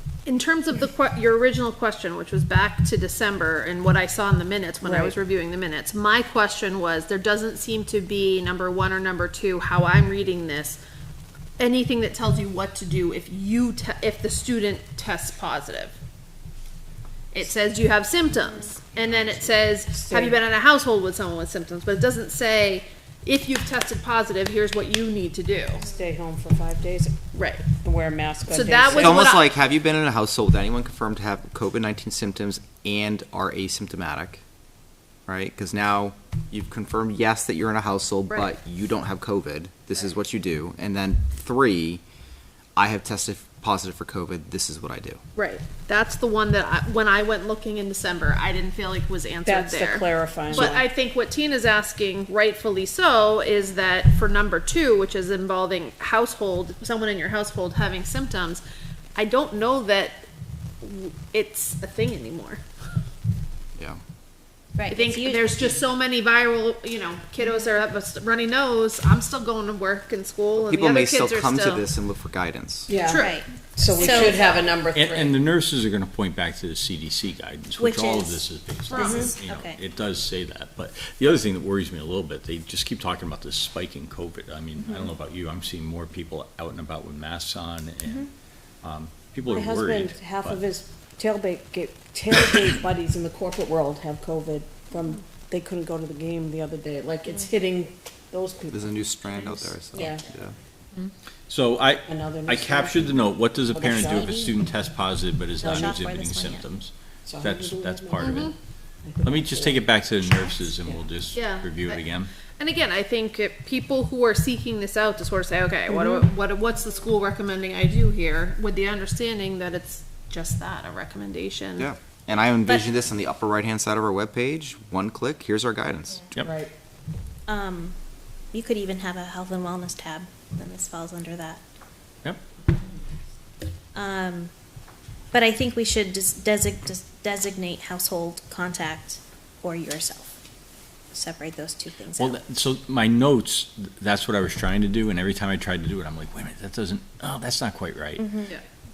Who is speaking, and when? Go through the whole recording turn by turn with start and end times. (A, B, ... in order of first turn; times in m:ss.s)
0:00.2-0:10.8 A
0:04.8-0:05.2 B
0:11.6-0:16.0 A
0:17.3-0:25.9 A
0:19.9-0:20.4 B
0:25.8-0:27.1 B
0:27.3-0:27.7 A
0:27.7-0:29.2 B
0:28.5-0:29.5 A
0:28.9-0:34.4 C
0:35.3-0:42.0 C
0:42.8-0:45.2 C
0:45.4-0:58.6 A
0:49.4-0:50.9 B
0:59.2-1:00.2 A
1:00.8-1:02.6 A
1:04.8-1:05.8 D
1:04.9-1:11.9 A
1:10.6-1:12.9 C
1:12.9-1:15.4 B
1:12.9-1:13.4 A
1:13.1-1:14.4 D
1:14.0-1:14.7 A
1:14.9-1:28.2 E
1:17.8-1:19.8 D
1:18.9-1:19.4 B
1:24.8-1:25.1 D
1:28.8-1:30.6 E
1:29.4-1:40.2 B
1:38.7-1:40.5 C
1:39.9-1:40.2 D
1:41.5-1:48.5 E
1:42.1-1:44.5 B
1:43.9-1:44.5 D
1:45.6-1:46.6 D
1:45.6-1:45.9 B
1:47.2-1:48.4 B
1:48.2-1:48.5 A
1:49.0-1:49.9 B
1:49.2-1:52.3 E
1:51.3-2:01.9 A
1:55.9-1:56.2 D
2:01.8-2:06.4 C
2:06.4-2:06.7 B
2:07.5-2:07.9 D
2:08.5-2:11.6 D
2:13.9-2:14.5 D
2:15.3-2:20.4 D
2:21.1-2:22.4 D
2:22.2-2:28.4 E
2:28.2-2:28.5 D